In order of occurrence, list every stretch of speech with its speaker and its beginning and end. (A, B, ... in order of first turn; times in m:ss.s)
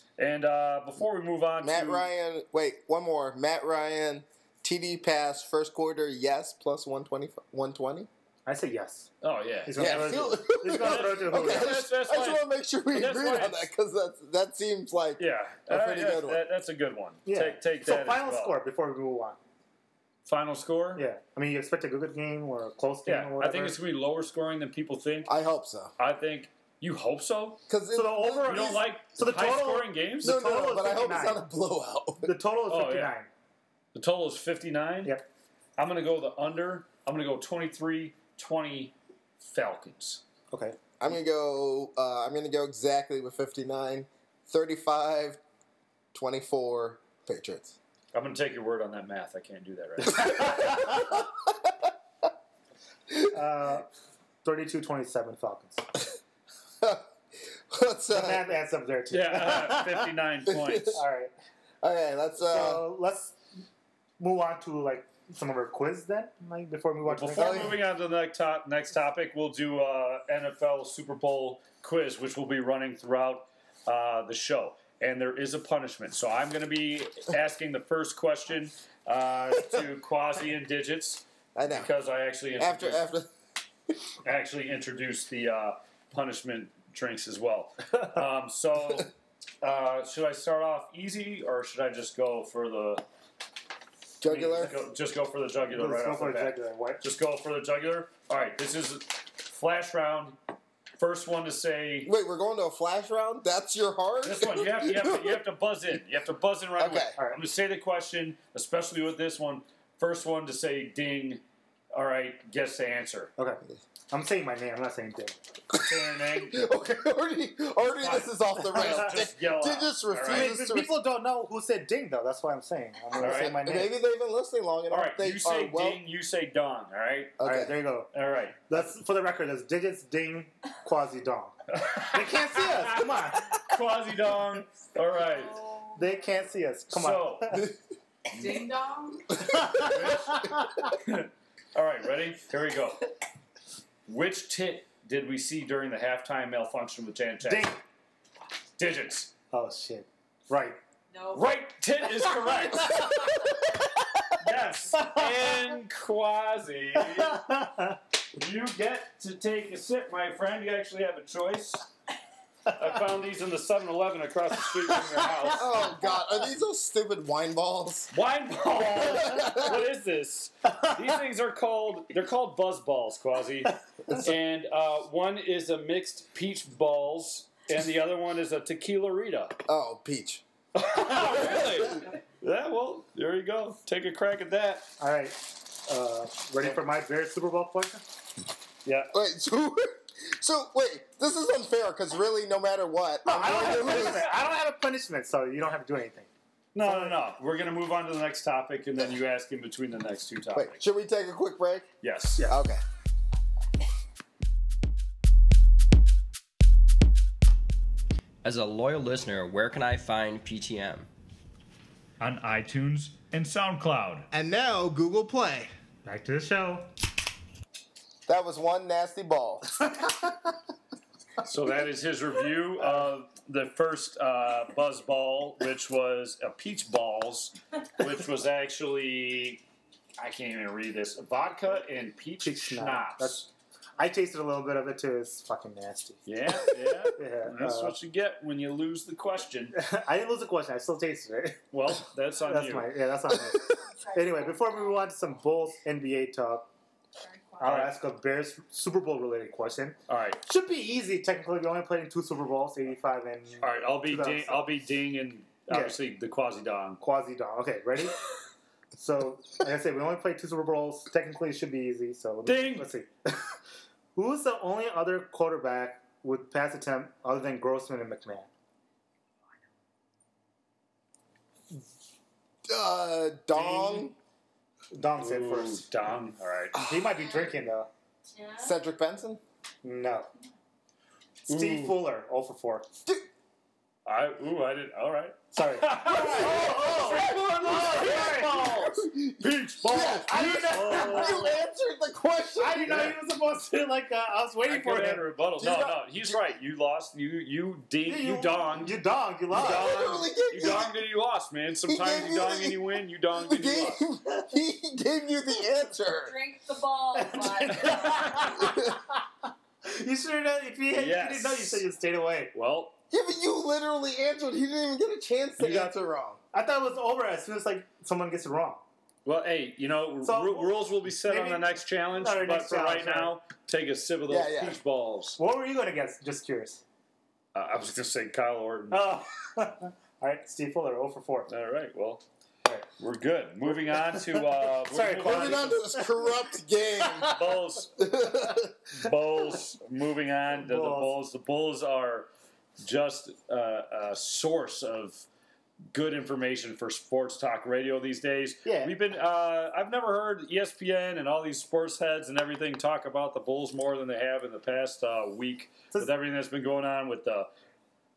0:00.2-0:02.0 A
0:01.6-0:08.1 B
0:08.4-0:09.1 C
0:09.2-0:13.7 A
0:09.6-0:11.7 C
0:09.8-0:16.4 B
0:15.2-0:18.6 A
0:17.2-0:19.4 C
0:20.2-0:21.0 A
0:21.0-0:23.8 C
0:23.0-0:25.3 A
0:25.3-0:25.9 B
0:26.0-0:27.6 A
0:27.7-0:28.8 B
0:27.9-0:31.5 C
0:28.4-0:30.4 A
0:30.2-0:32.3 B
0:32.2-0:33.3 C
0:32.7-0:33.1 A
0:33.9-0:35.1 A
0:35.8-0:40.2 A
0:40.5-0:40.8 C
0:41.0-0:45.4 B
0:46.1-0:47.7 B
0:48.1-0:50.5 A
0:50.2-0:50.7 C
0:50.3-0:51.7 B
0:53.3-0:53.9 C
0:54.4-0:55.9 C
0:57.7-0:58.4 B
0:58.1-1:00.1 C
0:59.1-1:01.0 A
1:00.5-1:01.0 B
1:00.9-1:01.3 C
1:01.8-1:02.8 B
1:02.4-1:03.4 C
1:04.2-1:07.8 C
1:07.1-1:23.0 A
1:07.4-1:07.8 B
1:21.5-1:21.9 B
1:22.6-1:23.3 B
1:24.2-1:29.1 A
1:29.6-1:33.0 A
1:34.2-1:34.8 B
1:34.2-1:40.4 A
1:35.7-1:37.0 C
1:41.0-1:42.1 A
1:42.0-1:45.4 B
1:44.2-1:53.3 A
1:46.8-1:47.1 B
1:47.2-1:47.4 C
1:53.4-1:55.4 C
1:55.7-1:56.7 A
1:56.5-2:00.9 B
1:58.0-2:00.6 A
2:00.3-2:03.9 C
2:03.2-2:03.6 A
2:03.2-2:06.0 B
2:04.9-2:07.4 A
2:07.4-2:07.7 B
2:07.4-2:08.1 C
2:08.1-2:08.8 A
2:08.7-2:13.6 C
2:11.7-2:15.6 A
2:15.2-2:16.0 D
2:16.0-2:17.7 C
2:16.9-2:17.6 A
2:18.3-2:19.5 D
2:19.4-2:20.9 C
2:19.7-2:23.1 A
2:24.1-2:27.7 A
2:27.4-2:27.8 C
2:28.8-2:29.3 A
2:29.5-2:30.8 C
2:31.1-2:31.5 D
2:31.3-2:33.3 A
2:34.4-2:37.5 A
2:35.0-2:35.3 C
2:37.1-2:38.0 C
2:38.4-2:41.9 A
2:42.7-2:45.8 A
2:45.1-2:45.5 C
2:45.6-2:48.1 B
2:48.1-2:59.6 A
2:49.0-2:49.8 B
2:59.7-3:00.4 B
3:00.7-3:04.9 A
3:05.0-3:08.0 C
3:08.8-3:09.1 A
3:09.1-3:14.3 B
3:13.2-3:16.3 C
3:13.6-3:14.3 A
3:16.7-3:20.8 A
3:16.8-3:17.2 C
3:20.5-3:21.9 B
3:22.0-3:22.5 A
3:22.5-3:22.8 B
3:28.4-3:31.0 E
3:32.2-3:34.3 A
3:34.3-3:35.7 B
3:36.0-3:36.9 C
3:38.3-3:39.8 B
3:41.4-3:49.6 A
3:50.2-3:53.4 A
3:52.4-3:53.4 C
3:54.0-3:56.2 C
3:56.2-3:59.8 A
3:57.2-3:58.0 C
3:59.7-4:01.6 C
4:01.7-4:02.9 A
4:02.4-4:06.7 C
4:03.8-4:04.8 D
4:07.2-4:07.6 D
4:07.6-4:14.7 C
4:07.6-4:07.9 A
4:10.1-4:10.4 A
4:13.6-4:17.0 A
4:15.7-4:16.0 C
4:17.0-4:18.2 C
4:19.0-4:23.5 C
4:22.4-4:22.9 A
4:24.1-4:28.5 C
4:32.6-4:34.1 B
4:33.5-4:34.1 A
4:34.9-4:35.8 C
4:35.2-4:36.8 A
4:36.8-4:37.9 C
4:38.3-4:38.7 D
4:38.6-4:39.4 B
4:39.8-4:40.3 C
4:41.5-4:42.9 C
4:41.5-4:42.0 A
4:44.0-4:51.4 A
4:45.5-4:48.6 C
4:46.3-4:53.1 B
4:50.3-4:51.5 C
4:52.6-4:55.2 C
4:54.7-4:58.9 A
4:55.6-4:56.4 B
4:58.0-4:59.9 C
4:59.5-5:04.0 A
4:59.6-5:01.0 B
5:01.9-5:02.8 B
5:03.3-5:06.3 B
5:06.2-5:08.6 D
5:07.1-5:09.2 C
5:08.6-5:09.0 B
5:09.8-5:12.5 C
5:10.9-5:11.8 A
5:12.5-5:12.9 A
5:13.1-5:16.4 B
5:15.6-5:15.9 C
5:16.5-5:18.8 C
5:19.2-5:25.4 A
5:20.2-5:23.3 C
5:24.3-5:24.8 B
5:25.4-5:26.8 C
5:27.5-5:29.1 A
5:28.9-5:31.5 C
5:31.5-5:32.2 A
5:33.0-5:35.7 A
5:33.9-5:36.3 C
5:35.2-5:37.4 B
5:37.0-5:37.4 C
5:37.2-5:38.1 A
5:38.0-5:38.7 B
5:38.9-5:42.3 A
5:40.6-5:41.1 C
5:42.8-5:45.2 A
5:45.9-5:57.5 A
5:48.6-5:48.9 C